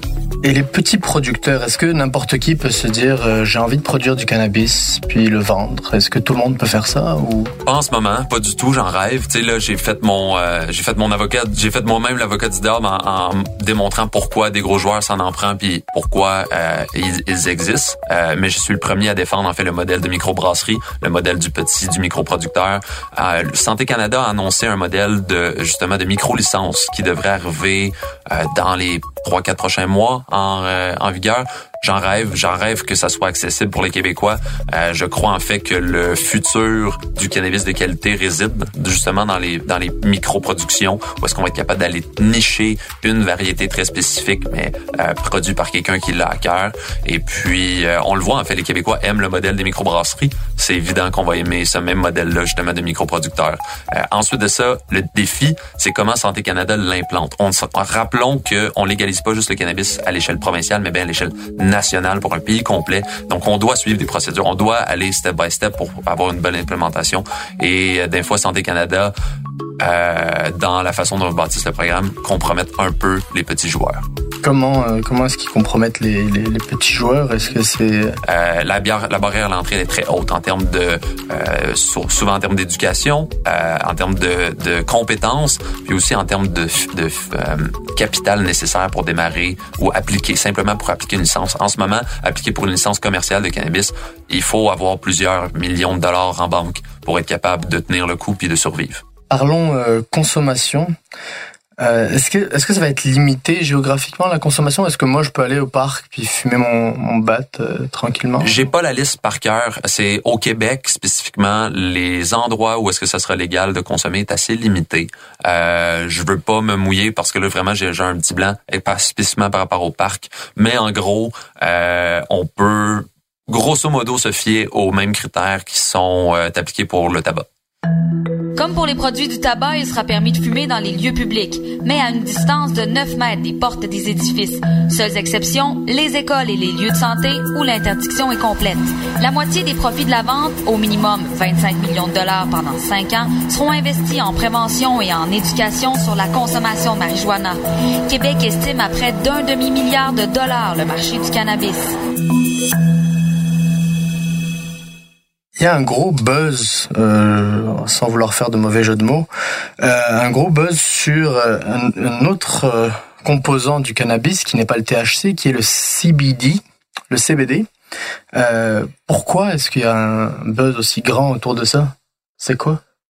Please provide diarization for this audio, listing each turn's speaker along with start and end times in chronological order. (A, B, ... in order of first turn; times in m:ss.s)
0:00.4-0:07.5 A
0:07.6-1:09.1 B
1:09.8-1:14.0 B
1:14.4-1:18.2 A
1:18.2-1:39.0 B
1:39.3-1:40.9 A
1:41.8-1:48.5 A
1:48.4-2:07.4 B
2:08.5-2:31.9 C
2:35.6-2:39.3 A
2:39.8-2:47.7 A
2:48.3-2:52.8 A